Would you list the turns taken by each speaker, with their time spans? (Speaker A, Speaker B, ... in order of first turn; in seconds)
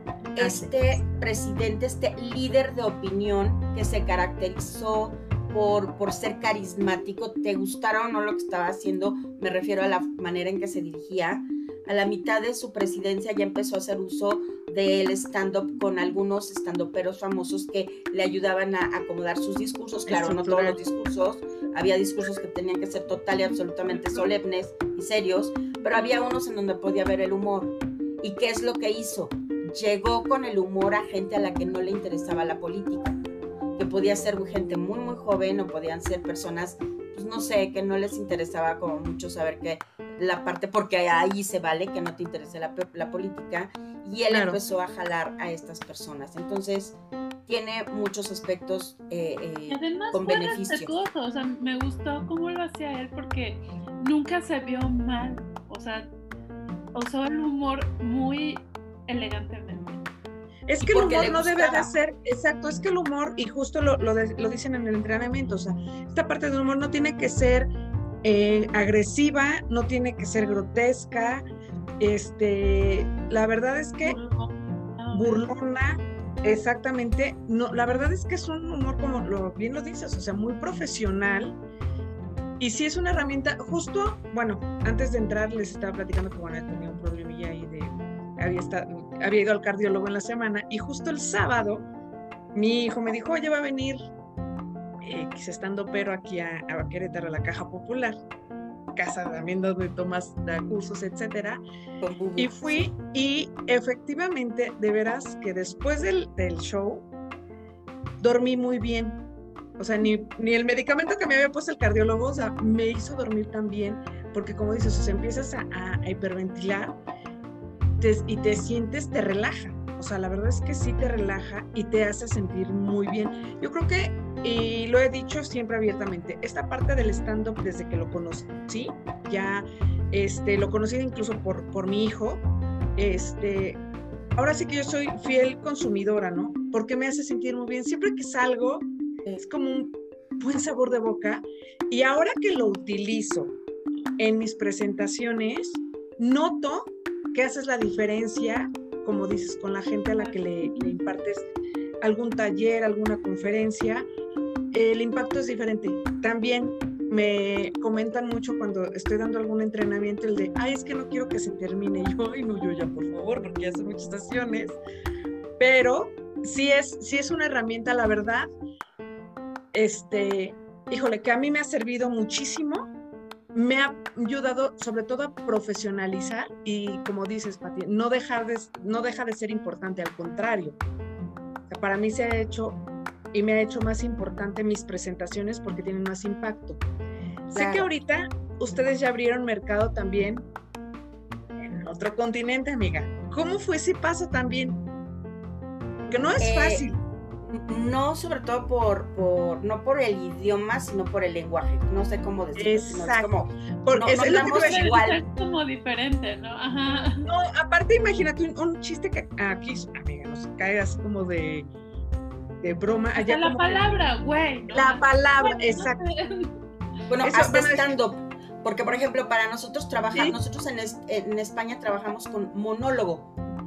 Speaker A: 0.3-33.2, 33.8-50.9, 60.8-61.9, 102.0-102.8, 187.5-187.9, 196.4-196.8, 197.5-205.2, 217.1-223.3
Speaker B: 0.4-0.7, 20.1-20.8, 23.9-24.2, 44.3-44.6, 60.7-67.7, 68.2-71.4, 72.0-74.2, 75.1-81.6, 82.6-91.9, 92.5-94.0, 95.0-98.2, 99.0-101.6, 102.4-107.1, 108.2-109.2, 109.8-117.0, 118.0-132.4, 133.0-133.8, 134.4-143.6, 144.2-151.5, 152.0-154.1, 154.7-164.8, 165.6-168.5, 169.7-172.8, 173.5-180.8, 181.7-182.8, 183.3-186.8, 187.5-190.5, 191.6-194.8, 196.1-197.0, 202.6-203.3, 203.8-204.9, 207.2-211.7, 212.6-213.8, 214.7-216.0, 217.2-217.9
Speaker C: 49.7-56.1, 56.9-60.0, 74.0-75.4, 150.1-151.0, 204.2-207.3, 213.2-216.5